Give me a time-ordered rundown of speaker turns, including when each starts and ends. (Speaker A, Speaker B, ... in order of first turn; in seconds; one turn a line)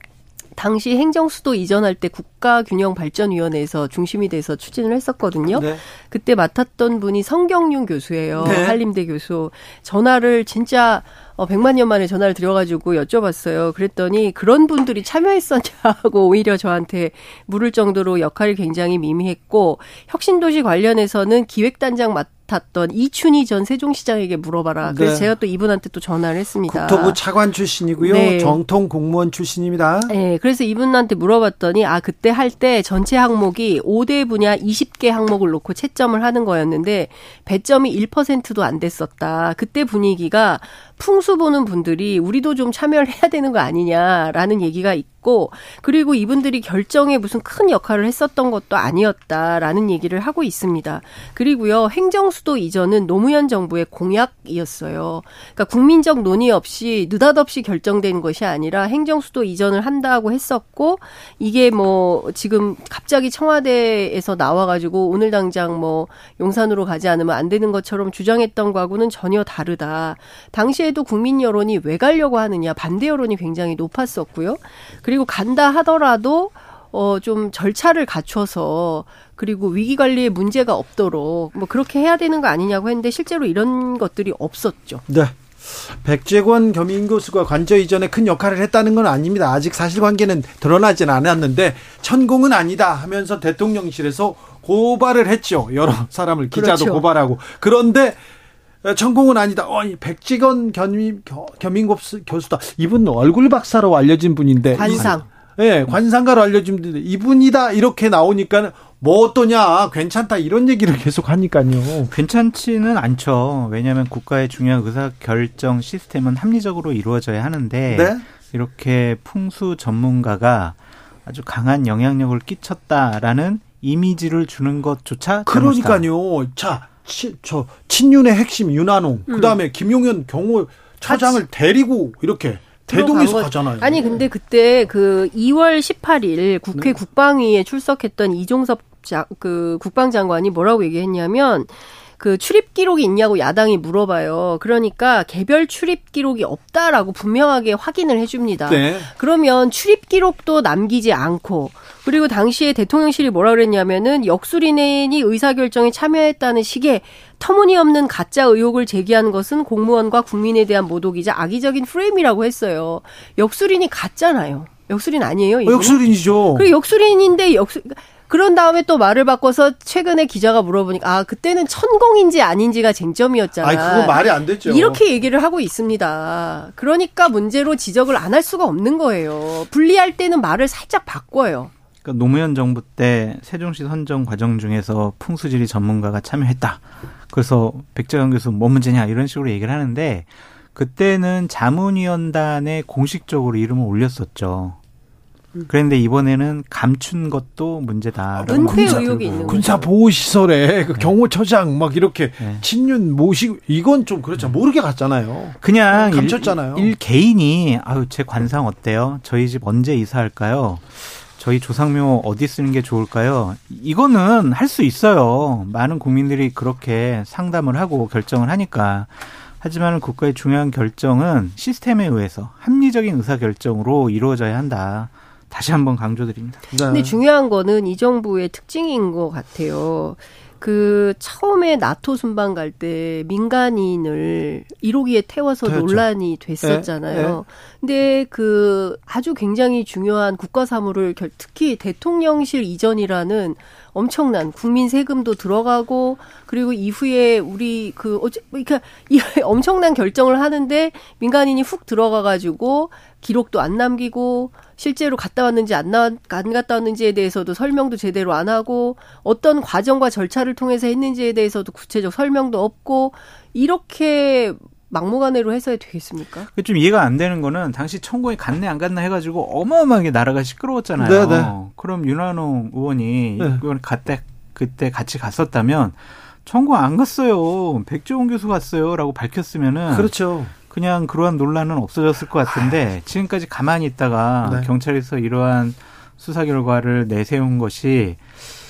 Speaker A: 0.6-27.2
Speaker B: 5.5-5.8
Speaker B: 8.4-8.8
Speaker B: 24.8-25.3
Speaker B: 26.7-30.1
Speaker A: 28.0-28.6
Speaker A: 30.1-85.0
Speaker B: 85.1-98.2
Speaker A: 96.5-97.1
Speaker B: 98.8-112.1
Speaker A: 104.7-105.3
Speaker C: 112.1-126.1
Speaker B: 117.9-118.2
Speaker B: 125.5-134.2
Speaker A: 129.3-129.6
Speaker A: 131.1-131.4
Speaker A: 132.9-181.7
Speaker B: 148.7-149.1
Speaker B: 165.7-166.7
Speaker B: 173.6-175.0
Speaker C: 182.0-194.8
Speaker C: 195.7-199.8
Speaker B: 198.4-206.9
Speaker A: 198.4-199.9
Speaker C: 205.6-226.7
Speaker B: 226.7-227.2
Speaker A: 226.9-266.5
Speaker B: 235.6-236.1
Speaker B: 236.6-237.4
Speaker C: 266.5-280.1
Speaker B: 271.0-271.5
Speaker B: 279.9-280.5
Speaker C: 280.7-288.2
Speaker B: 284.4-284.7